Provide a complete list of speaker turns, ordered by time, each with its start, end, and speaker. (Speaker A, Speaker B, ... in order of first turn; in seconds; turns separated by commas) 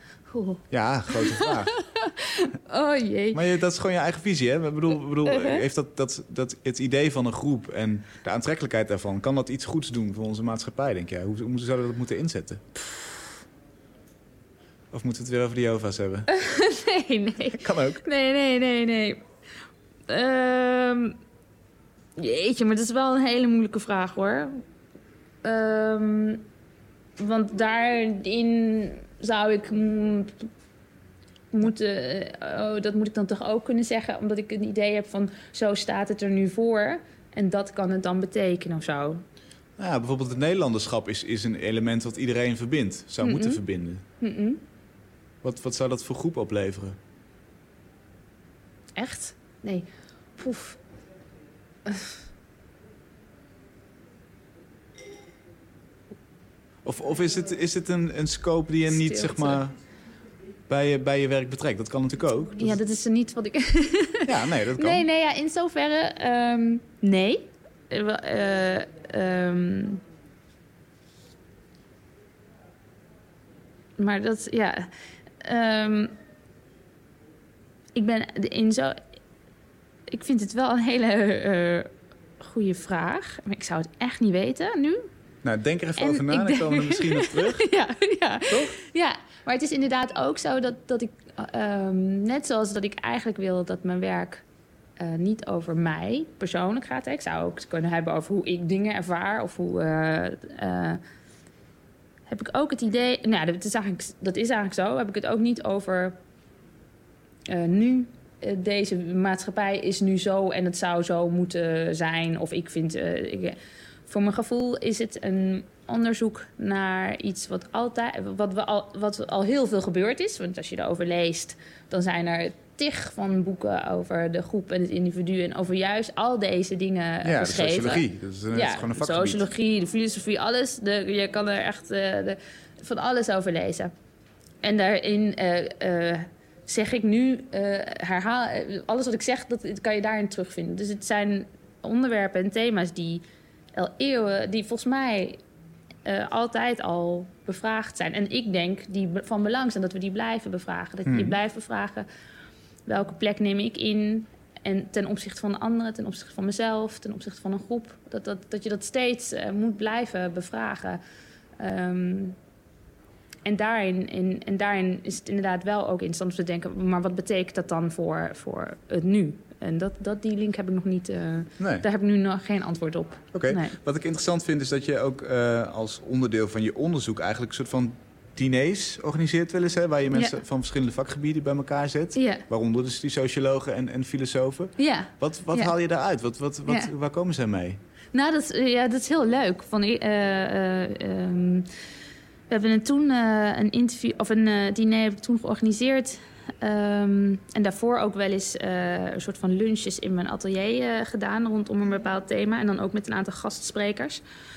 Speaker A: 0.3-3.4, Speaker B: 0.7-1.7, Speaker B: 3.3-12.8, Speaker A: 5.2-5.6, Speaker B: 14.9-16.3, Speaker A: 16.3-19.2, Speaker B: 17.6-18.0, Speaker A: 20.1-21.2, Speaker A: 22.2-24.6, Speaker A: 25.4-26.4, Speaker A: 27.2-30.5, Speaker A: 31.5-39.2, Speaker B: 39.8-44.0, Speaker A: 43.2-43.6, Speaker A: 44.2-44.6, Speaker B: 45.4-47.0, Speaker A: 49.0-50.8, Speaker A: 51.9-52.1, Speaker B: 56.8-59.7, Speaker A: 58.9-59.6, Speaker B: 60.7-62.8, Speaker A: 62.6-70.0, Speaker B: 64.2-65.0, Speaker A: 74.0-76.1, Speaker A: 77.9-79.0, Speaker A: 80.1-85.1, Speaker B: 85.4-87.7, Speaker A: 86.0-94.4, Speaker B: 88.5-88.8, Speaker A: 95.0-101.0, Speaker A: 102.3-106.2, Speaker A: 107.5-133.9, Speaker B: 127.2-129.4, Speaker A: 134.6-143.2, Speaker A: 143.7-145.4, Speaker A: 146.0-152.1, Speaker B: 151.1-151.4, Speaker A: 152.8-161.0, Speaker A: 161.6-162.4, Speaker A: 163.4-173.8, Speaker B: 171.6-171.8, Speaker B: 173.3-187.8, Speaker A: 180.1-180.4, Speaker A: 182.1-182.4, Speaker A: 184.8-185.7, Speaker A: 188.1-191.7, Speaker A: 192.5-204.2